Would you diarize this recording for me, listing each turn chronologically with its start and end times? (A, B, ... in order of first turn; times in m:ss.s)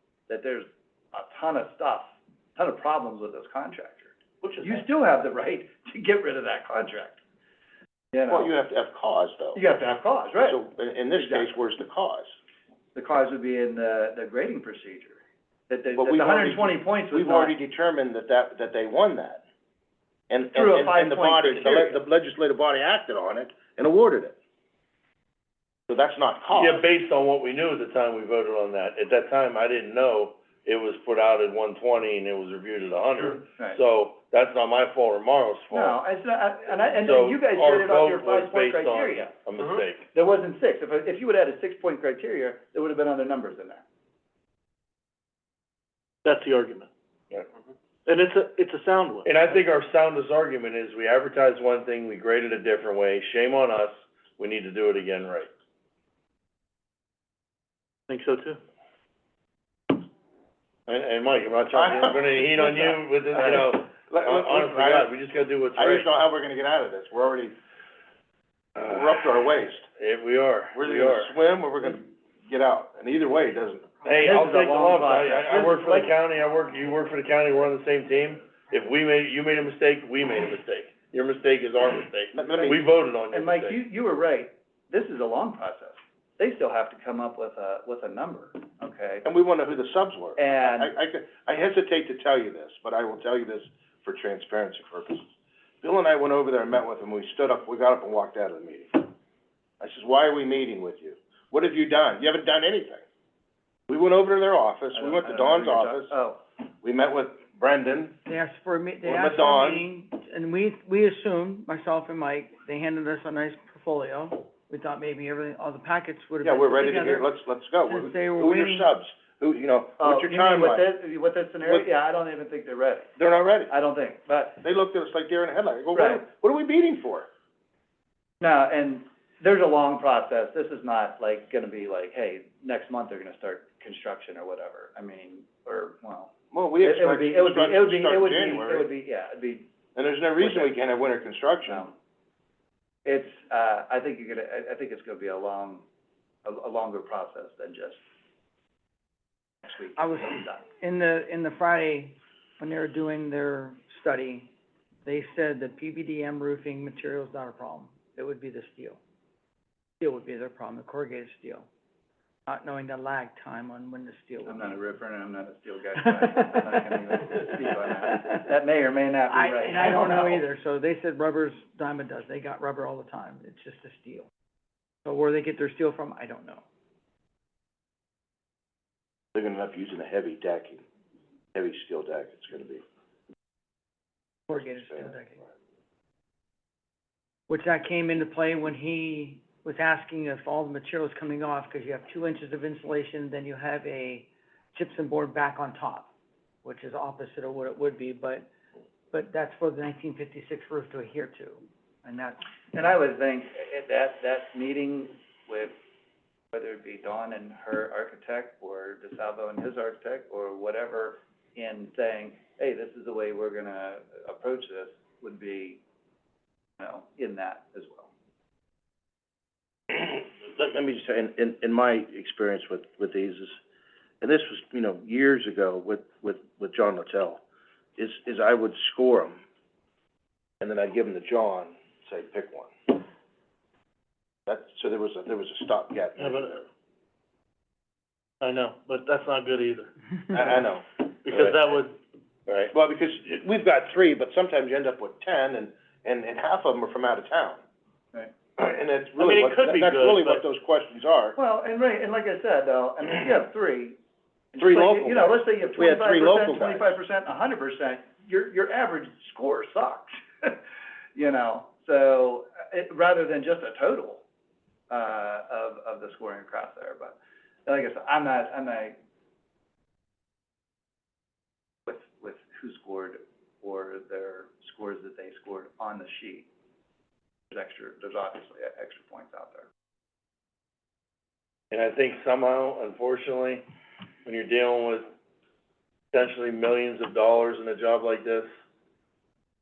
0:00.3-0:07.2 A
0:08.1-0:08.5 A
0:08.3-0:09.6 B
0:09.6-0:10.6 A
0:10.4-0:12.3 B
0:11.1-0:11.5 A
0:13.0-0:17.5 A
0:16.0-0:19.4 B
0:20.3-0:24.4 B
0:20.5-0:22.0 A
0:25.9-0:26.8 B
0:26.5-0:36.0 C
0:35.7-0:39.3 A
0:36.9-0:40.1 C
0:40.1-0:43.8 A
0:46.2-0:46.9 D
0:48.1-0:49.3 D
0:49.2-0:55.5 C
0:58.1-0:58.6 D
1:00.9-1:06.1 C
1:01.7-1:05.1 B
1:05.8-1:07.5 B
1:08.8-1:09.8 B
1:10.0-1:11.3 C
1:10.7-1:14.1 B
1:14.0-1:23.8 C
1:14.2-1:16.1 A
1:22.3-1:22.8 B
1:22.6-1:29.2 A
1:29.2-1:35.2 B
1:30.4-1:30.9 A
1:35.8-1:39.1 B
1:39.8-1:43.0 B
1:43.9-1:46.1 B
1:44.9-1:46.4 A
1:46.8-1:48.2 B
1:48.2-1:57.3 E
1:49.0-1:49.8 B
1:56.4-2:00.8 B
1:57.8-1:58.9 E
2:00.0-2:03.1 A
2:03.2-2:03.7 B
2:03.7-2:04.6 A
2:04.6-2:07.3 B
2:05.9-2:06.2 A
2:08.4-2:19.7 A
2:16.5-2:18.9 B
2:19.9-2:21.8 B
2:20.4-2:20.7 A
2:21.7-2:21.9 A
2:23.0-2:25.8 A
2:26.4-2:28.0 A
2:29.6-2:30.6 A
2:29.9-2:34.5 E
2:35.0-2:39.0 E
2:40.0-2:41.7 E
2:42.5-2:44.8 E
2:44.4-2:50.4 A
2:46.1-2:46.6 E
2:49.3-2:54.3 E
2:55.0-2:56.6 E
2:59.3-3:00.8 B
3:01.5-3:02.8 B
3:04.5-3:05.4 E
3:04.6-3:05.1 B
3:07.5-3:16.1 E
3:16.6-3:18.5 E
3:19.1-3:22.4 E
3:22.7-3:25.7 A
3:26.5-3:35.8 A
3:36.8-3:38.1 A
3:39.9-3:43.6 B
3:44.2-3:47.4 B
3:48.0-3:49.4 B
3:50.6-3:53.0 B
3:54.5-3:56.7 B
3:56.2-3:56.6 D
3:58.4-3:59.9 D
4:00.3-4:01.6 B
4:01.2-4:02.0 D
4:02.5-4:02.7 C
4:02.7-4:07.6 B
4:08.6-4:11.4 B
4:09.2-4:10.4 D
4:11.4-4:14.0 A
4:14.5-4:20.6 A
4:14.6-4:16.9 B
4:21.2-4:24.2 A
4:24.9-4:29.0 A
4:31.9-4:36.5 A
4:37.5-4:39.7 A
4:41.7-4:43.6 C
4:44.2-4:45.1 C
4:46.1-4:48.5 C